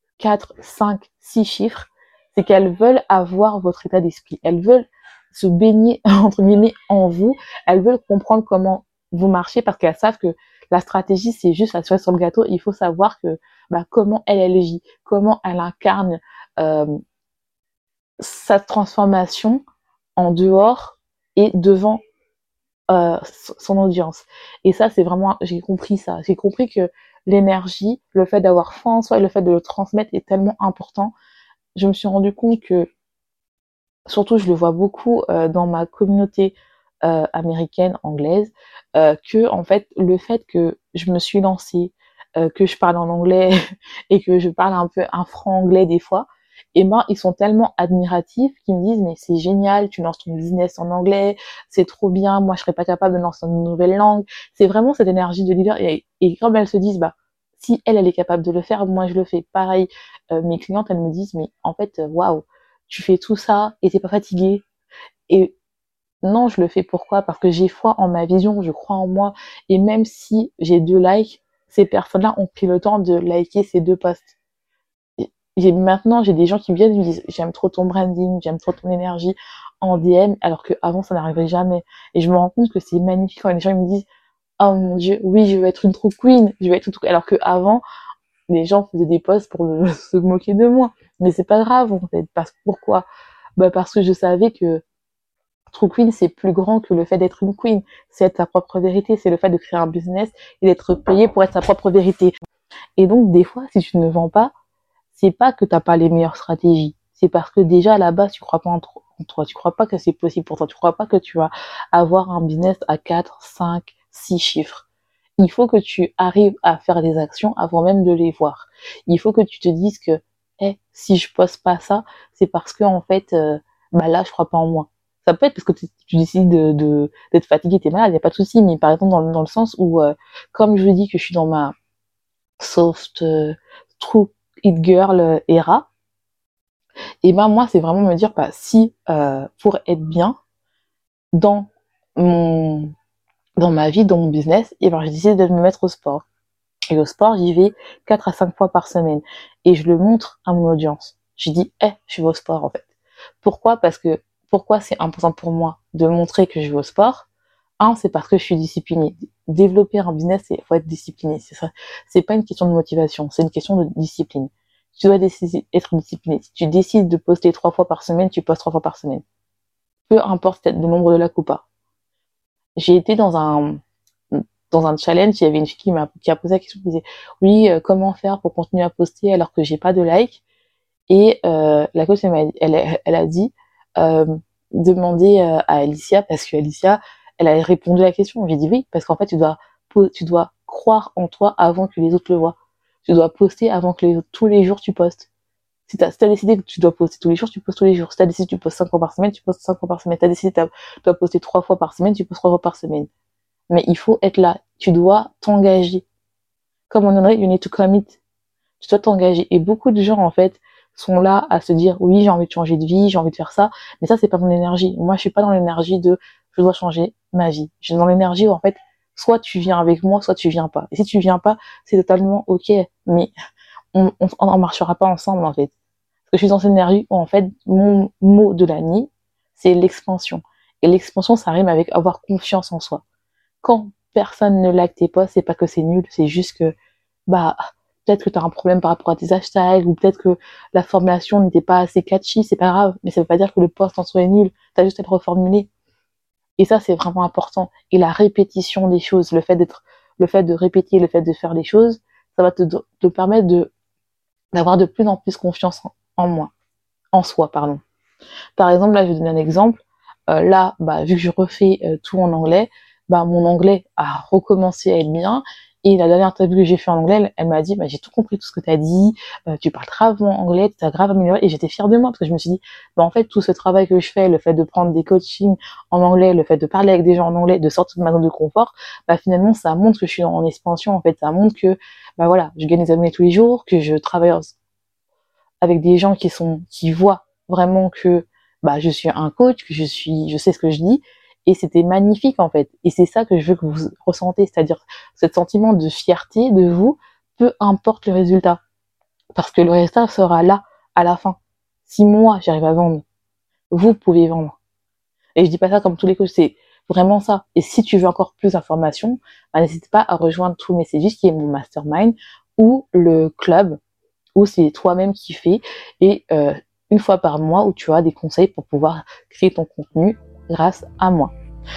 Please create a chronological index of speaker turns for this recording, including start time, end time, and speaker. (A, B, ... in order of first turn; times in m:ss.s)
0:00.2-0:16.9 A
0:18.2-0:19.6 A
0:20.2-0:22.0 A
0:22.9-0:31.1 A
0:31.8-0:32.9 A
0:34.1-0:43.6 A
0:44.1-1:04.6 A
1:05.3-1:05.5 A
1:06.2-1:14.4 A
1:15.2-1:24.1 A
1:24.6-1:27.8 A
1:28.5-1:33.1 A
1:33.6-1:34.8 A
1:35.7-1:42.3 A
1:43.0-1:44.5 A
1:45.1-1:54.9 A
1:55.4-2:11.7 A
2:12.6-2:15.9 A
2:17.2-2:20.4 A
2:21.3-2:22.9 A
2:23.6-2:26.2 A
2:26.9-2:32.9 A
2:33.4-2:37.3 A
2:37.8-2:49.2 A
2:50.1-2:51.6 A
2:52.8-2:53.8 A
2:54.3-3:00.4 A
3:01.1-3:15.3 A
3:15.9-3:23.1 A
3:23.7-3:26.0 A
3:26.9-3:28.2 A
3:28.8-3:43.3 A
3:43.9-3:45.7 A
3:46.3-3:53.0 A
3:53.6-3:56.7 A
3:57.3-4:05.7 A
4:06.6-4:13.7 A
4:14.5-4:16.5 A
4:17.1-4:17.8 A
4:18.6-4:44.5 A
4:45.6-4:58.6 A
4:59.4-5:03.0 A
5:03.7-5:04.6 A
5:05.4-5:13.8 A
5:14.4-5:21.3 A